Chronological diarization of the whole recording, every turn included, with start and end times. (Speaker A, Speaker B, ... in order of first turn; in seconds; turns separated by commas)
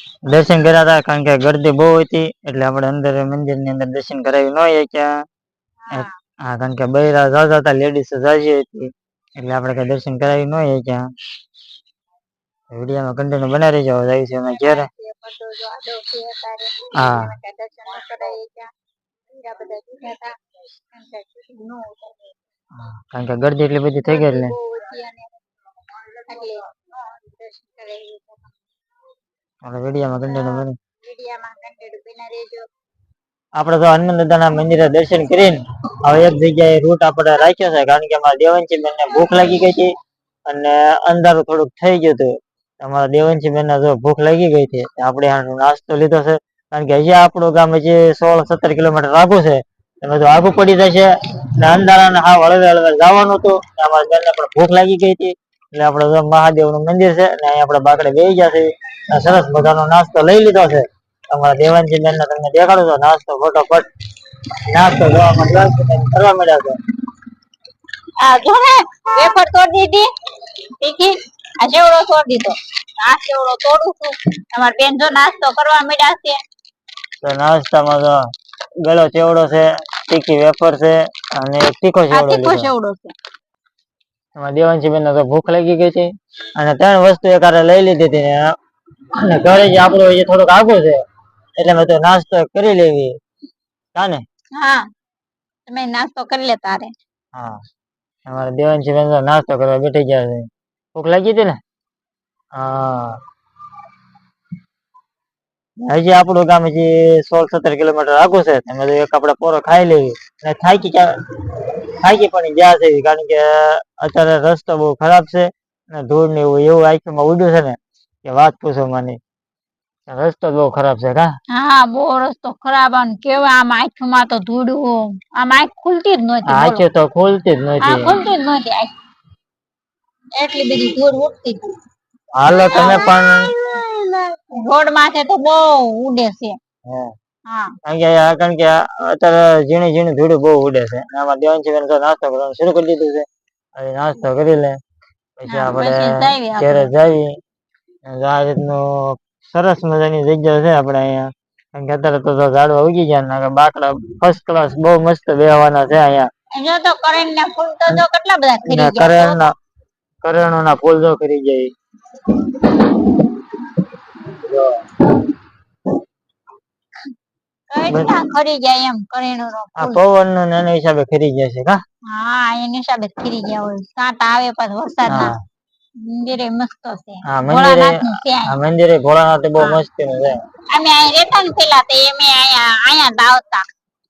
Speaker A: 0.2-5.1, Speaker B: 5.8-6.1, Speaker A: 5.9-11.1, Speaker A: 12.7-14.9, Speaker B: 14.5-18.7, Speaker A: 16.9-17.3, Speaker B: 19.3-20.3, Speaker B: 20.9-22.3, Speaker A: 22.7-24.5, Speaker B: 24.0-25.3, Speaker B: 25.9-28.5, Speaker A: 29.6-30.7, Speaker B: 30.3-32.6, Speaker A: 33.6-39.9, Speaker A: 40.5-66.8, Speaker B: 68.2-76.4, Speaker A: 77.2-78.2, Speaker A: 78.8-82.7, Speaker B: 82.1-83.1, Speaker A: 84.3-88.5, Speaker A: 89.1-91.0, Speaker A: 91.6-93.2, Speaker A: 93.9-94.2, Speaker B: 94.5-94.8, Speaker B: 95.7-96.9, Speaker A: 98.2-101.6, Speaker A: 102.5-103.2, Speaker A: 105.8-119.2, Speaker A: 120.1-121.3, Speaker B: 121.5-126.8, Speaker A: 126.5-128.1, Speaker B: 127.8-128.9, Speaker B: 130.4-131.6, Speaker A: 132.3-133.5, Speaker B: 132.7-136.6, Speaker B: 137.5-137.7, Speaker A: 137.8-144.8, Speaker A: 145.4-147.3, Speaker B: 145.5-146.9, Speaker A: 148.1-156.3, Speaker B: 156.5-159.5, Speaker A: 158.7-159.5, Speaker A: 160.2-165.3, Speaker B: 167.7-170.0, Speaker A: 167.9-168.2, Speaker A: 169.8-171.8, Speaker B: 172.1-175.3, Speaker A: 175.1-175.4, Speaker B: 176.0-178.6, Speaker A: 177.2-180.3, Speaker B: 180.7-183.6